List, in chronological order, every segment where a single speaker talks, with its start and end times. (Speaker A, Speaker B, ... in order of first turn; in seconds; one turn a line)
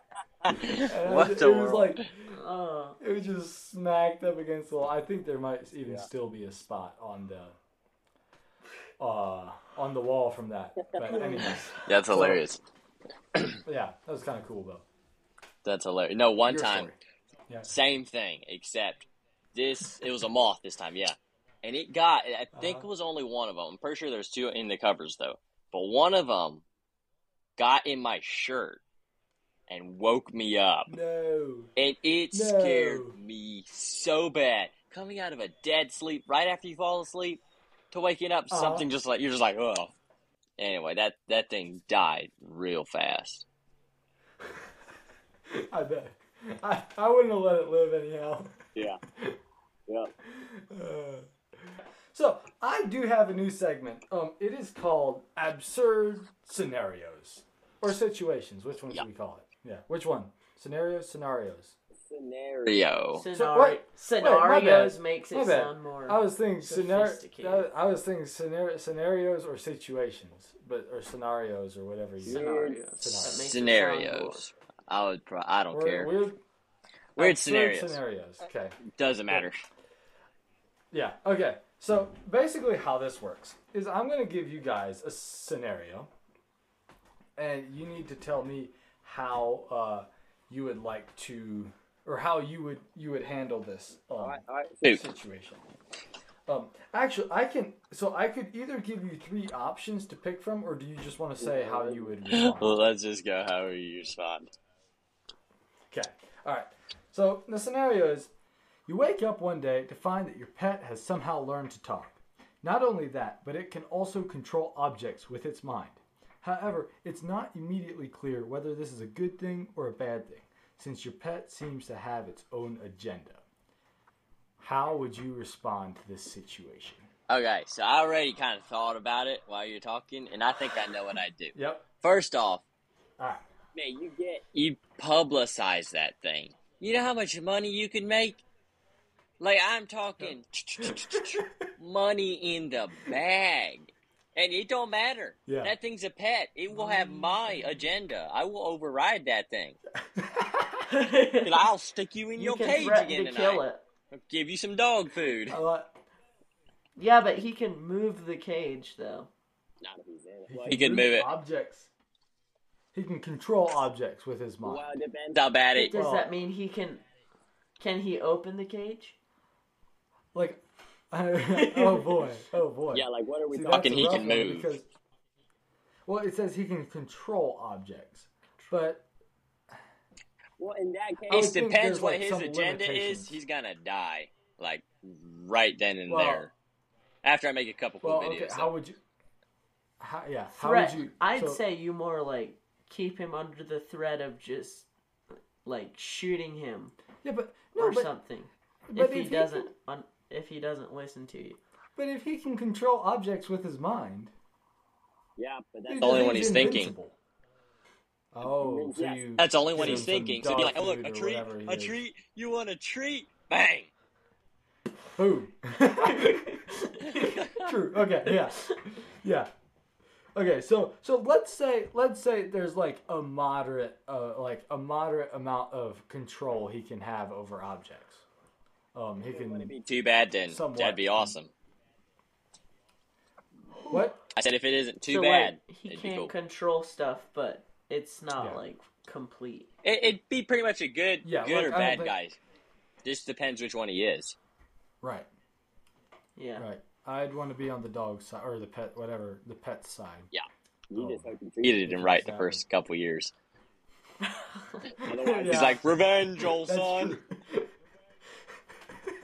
Speaker A: 0.5-2.0
Speaker B: 0.9-2.3
Speaker C: 2.3-3.0
Speaker B: 3.0-7.5
Speaker B: 9.0-12.4
Speaker D: 10.8-11.2
Speaker C: 11.1-11.7
Speaker A: 11.5-12.6
Speaker B: 13.7-14.8
Speaker A: 15.6-16.9
Speaker B: 16.5-17.0
Speaker A: 17.7-26.6
Speaker B: 22.5-22.9
Speaker A: 27.6-28.8
Speaker A: 29.7-30.9
Speaker B: 30.9-31.7
Speaker A: 31.8-37.4
Speaker B: 32.3-33.1
Speaker A: 37.9-39.9
Speaker B: 38.5-38.9
Speaker A: 40.6-43.5
Speaker B: 45.5-48.6
Speaker B: 50.3-51.3
Speaker B: 52.1-61.8
Speaker D: 62.1-62.8
Speaker A: 62.6-63.3
Speaker C: 63.1-67.7
Speaker B: 63.3-73.6
Speaker C: 72.2-74.5
Speaker D: 72.3-72.8
Speaker A: 73.2-76.2
Speaker B: 75.7-76.4
Speaker A: 77.2-78.0
Speaker B: 77.2-78.8
Speaker A: 78.9-79.6
Speaker B: 80.9-86.1
Speaker B: 87.4-95.6
Speaker D: 94.2-95.0
Speaker A: 94.8-95.1
Speaker B: 96.5-102.9
Speaker D: 101.4-102.1
Speaker A: 102.3-104.5
Speaker B: 105.9-108.3
Speaker B: 108.9-123.4
Speaker B: 124.6-127.1
Speaker A: 127.3-132.6
Speaker B: 131.6-131.8
Speaker A: 133.8-138.4
Speaker A: 139.4-149.8
Speaker B: 145.5-145.7
Speaker B: 146.8-147.3
Speaker B: 150.2-150.8
Speaker C: 150.9-151.6
Speaker A: 151.4-155.6
Speaker C: 152.4-153.8
Speaker B: 155.5-156.0
Speaker C: 157.0-159.3
Speaker D: 159.8-160.8
Speaker B: 160.5-161.9
Speaker A: 160.6-161.3
Speaker B: 162.9-164.9
Speaker D: 164.6-165.4
Speaker A: 165.3-166.0
Speaker C: 165.8-167.0
Speaker B: 165.9-166.3
Speaker C: 167.8-169.2
Speaker B: 170.3-174.9
Speaker C: 171.5-172.3
Speaker D: 172.9-174.1
Speaker A: 173.5-174.7
Speaker B: 176.1-179.1
Speaker D: 180.6-181.4
Speaker A: 181.2-186.5
Speaker B: 181.3-183.4
Speaker B: 186.1-186.5
Speaker A: 187.2-188.7
Speaker B: 188.0-189.0
Speaker B: 190.0-191.6
Speaker C: 190.5-194.9
Speaker C: 195.6-197.0
Speaker B: 197.2-198.1
Speaker C: 197.8-201.6
Speaker B: 198.9-199.7
Speaker B: 202.0-204.3
Speaker D: 205.4-206.8
Speaker B: 205.9-207.2
Speaker A: 206.0-206.9
Speaker B: 208.3-212.0
Speaker D: 208.6-209.2
Speaker A: 209.3-213.9
Speaker B: 215.2-216.5
Speaker C: 216.0-217.6
Speaker B: 217.5-219.5
Speaker B: 220.3-228.2
Speaker B: 228.9-229.7
Speaker A: 229.3-231.5
Speaker B: 230.5-231.4
Speaker B: 233.9-234.2
Speaker A: 234.3-236.3
Speaker C: 235.1-239.7
Speaker B: 238.4-238.6
Speaker A: 239.8-242.4
Speaker B: 241.2-242.2
Speaker A: 243.0-244.4
Speaker B: 245.0-245.3
Speaker C: 246.4-246.7
Speaker B: 246.6-250.3
Speaker B: 250.9-251.3
Speaker D: 251.0-251.7
Speaker A: 251.0-253.3
Speaker B: 251.8-252.6
Speaker C: 254.2-254.9
Speaker B: 255.0-255.9
Speaker D: 255.1-255.7
Speaker A: 255.3-257.2
Speaker B: 256.6-257.7